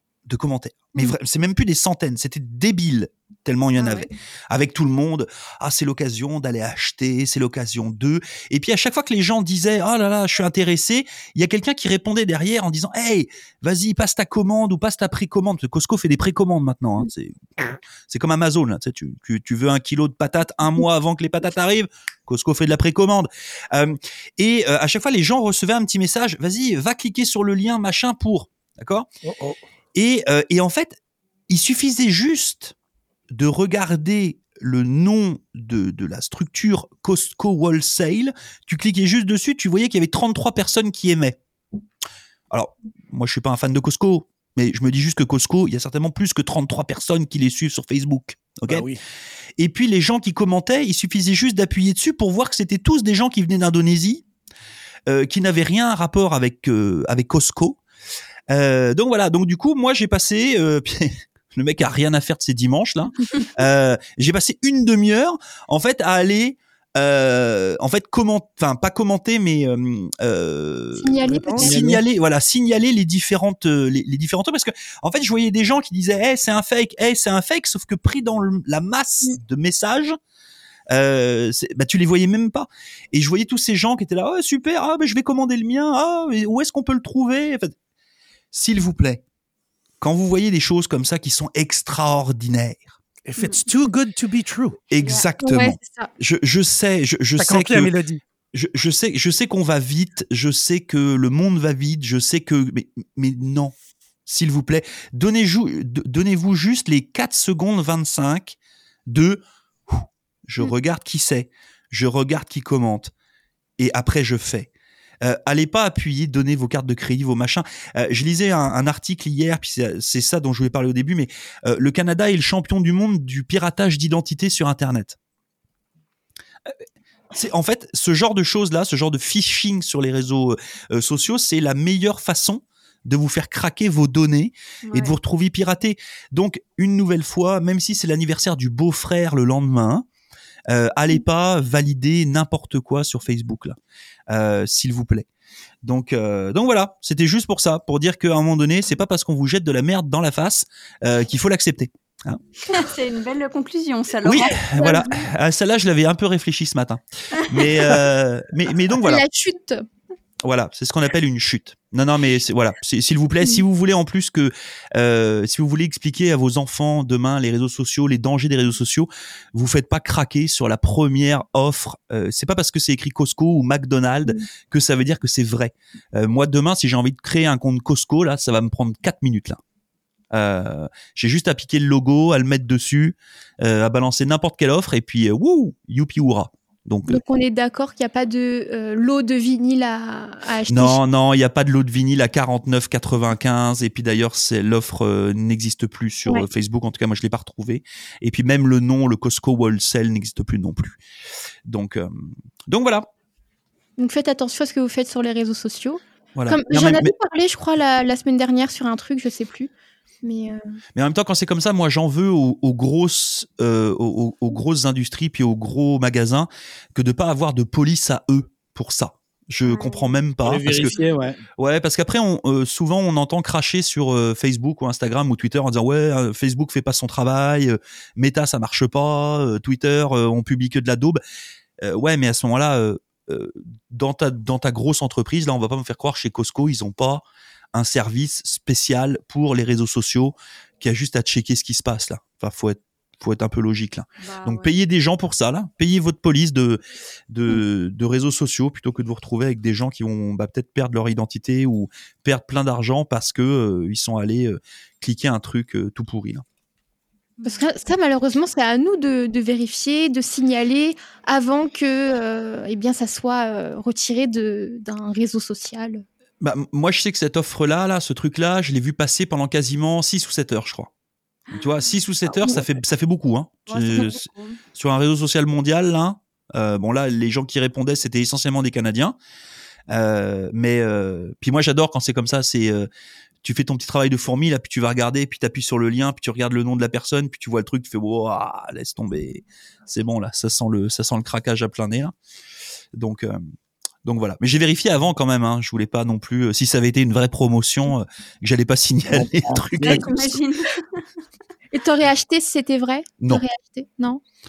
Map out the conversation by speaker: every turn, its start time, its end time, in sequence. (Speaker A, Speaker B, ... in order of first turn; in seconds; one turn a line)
Speaker A: 0.3-29.1
Speaker B: 3.8-4.1
Speaker C: 29.2-29.6
Speaker A: 29.9-31.0
Speaker A: 31.5-32.7
Speaker A: 33.3-41.4
Speaker A: 42.5-48.9
Speaker C: 48.7-49.0
Speaker A: 49.6-54.2
Speaker A: 55.1-57.8
Speaker A: 58.5-80.2
Speaker D: 71.0-71.7
Speaker C: 71.3-71.8
Speaker E: 71.6-72.0
Speaker A: 80.9-87.7
Speaker A: 88.5-89.2
Speaker A: 90.0-93.0
Speaker C: 93.2-94.8
Speaker A: 94.9-97.9
Speaker B: 95.0-95.2
Speaker D: 95.4-96.1
Speaker C: 97.4-98.2
Speaker A: 98.5-103.7
Speaker A: 104.2-108.6
Speaker A: 109.1-113.1
Speaker A: 113.8-114.7
Speaker A: 115.2-125.2
Speaker A: 127.3-140.0
Speaker B: 134.8-135.2
Speaker A: 140.7-143.8
Speaker A: 144.3-145.2
Speaker A: 145.8-152.8
Speaker B: 152.7-155.2
Speaker A: 154.2-159.2
Speaker B: 157.4-158.0
Speaker D: 159.0-159.8
Speaker A: 160.4-179.6
Speaker A: 180.3-187.2
Speaker D: 187.1-191.0
Speaker A: 190.7-201.0
Speaker A: 201.7-203.1
Speaker D: 204.0-209.7
Speaker A: 206.3-207.1
Speaker D: 210.2-210.8
Speaker A: 210.9-220.9
Speaker B: 219.6-220.2
Speaker E: 220.4-221.4
Speaker A: 221.6-231.2
Speaker A: 231.8-237.2
Speaker A: 237.7-256.4
Speaker B: 244.2-244.7
Speaker D: 257.4-266.0
Speaker A: 266.4-270.9
Speaker B: 271.5-272.5
Speaker A: 271.5-279.1
Speaker B: 273.7-274.6
Speaker A: 279.9-282.9
Speaker A: 283.4-292.1
Speaker A: 292.9-293.4
Speaker A: 294.0-300.4
Speaker E: 299.1-300.1
Speaker B: 299.8-301.1
Speaker D: 301.7-304.2